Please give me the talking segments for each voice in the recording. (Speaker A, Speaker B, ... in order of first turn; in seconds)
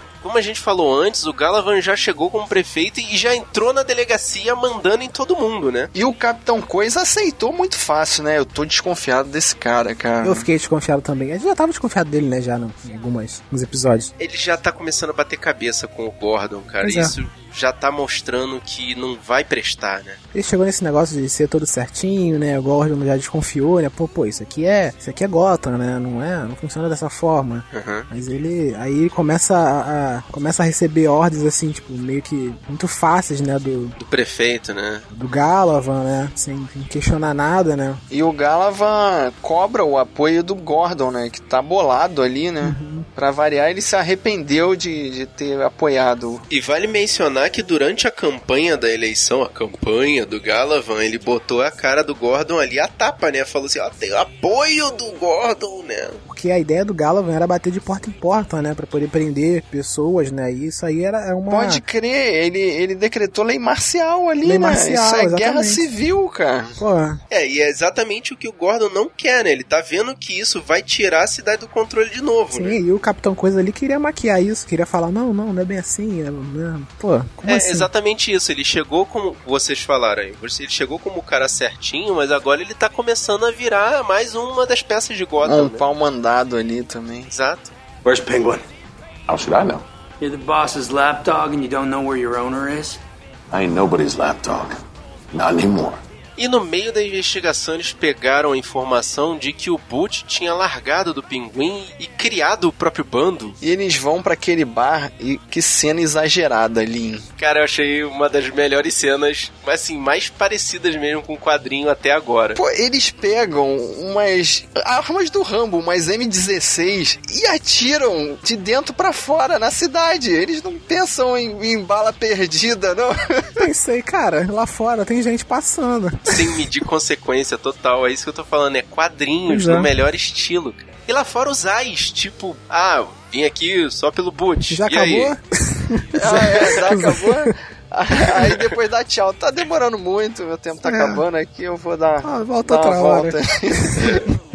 Speaker A: 0.2-5.9, 14.2-20.2, 27.7-28.1, 34.0-35.0, 46.5-56.2, 67.3-72.8, 77.5-85.8, 87.3-87.7, 96.4-103.6, 107.4-112.6, 126.3-135.3, 136.4-136.8
Speaker B: 5.9-10.5, 38.1-46.4, 61.5-66.8, 85.4-87.3, 103.6-107.2, 112.5-123.7, 136.2-144.2
Speaker C: 10.2-14.1, 16.8-17.1, 20.3-34.0, 35.1-38.0, 42.6-43.0, 56.2-61.8, 64.4-65.9, 66.8-67.2, 72.5-77.9, 123.6-126.6, 129.5-129.9, 134.7-137.5, 140.8-141.2, 142.2-144.2
Speaker D: 88.0-88.6, 89.3-89.8, 93.5-94.7, 95.3-96.0
Speaker E: 90.2-93.0